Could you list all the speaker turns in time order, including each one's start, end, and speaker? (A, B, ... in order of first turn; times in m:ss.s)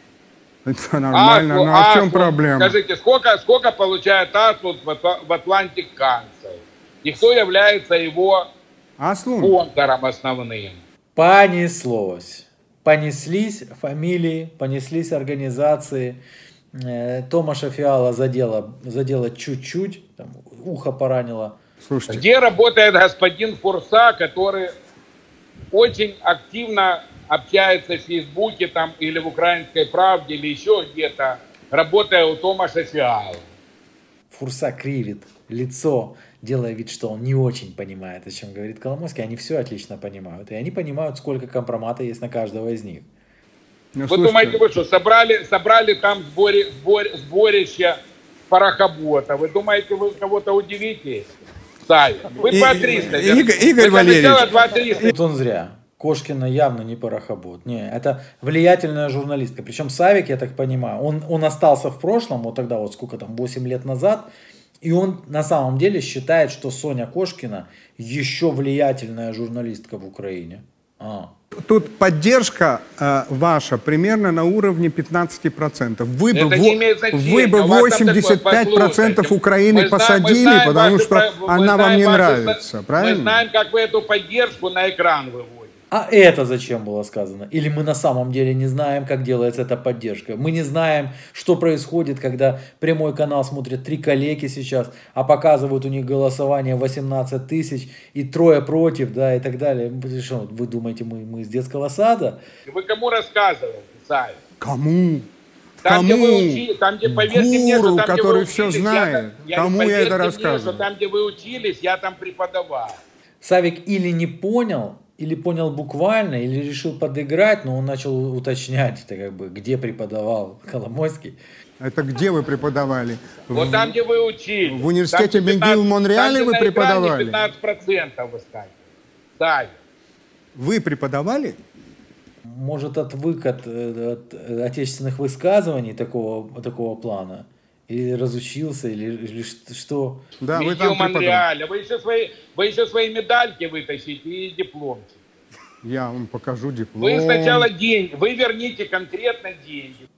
0:00.6-0:02.8 A
0:01.1-0:08.5 B
0:09.0-0:09.6 A
0:09.4-0:10.8 B
0:11.2-0:16.2 C
0:16.8-0:21.6 C
0:21.8-0:22.2 A
0:22.1-0:24.7 B
0:25.7-0:33.5 B
0:34.3-0:43.1 C
0:44.0-0:44.6 A
0:44.1-0:51.3 B
0:51.9-0:55.1 B
0:52.5-0:54.5 A
0:55.0-1:04.3 C
1:04.8-1:11.3 C
1:11.6-1:23.4 A
1:16.3-1:25.7 B
1:25.9-1:42.4 C
1:42.7-1:44.4 B
1:44.6-1:45.3 A
1:45.8-1:50.8 A
1:45.8-1:53.0 B
1:53.4-2:01.4 C
2:01.8-2:04.0 A
2:03.5-2:08.8 B
2:04.6-2:07.5 A
2:09.4-2:09.8 B
2:10.6-2:11.6 A
2:12.5-2:20.2 C
2:20.4-2:21.5 A
2:20.5-2:25.2 B
2:25.8-2:27.7 A
2:27.0-2:30.1 B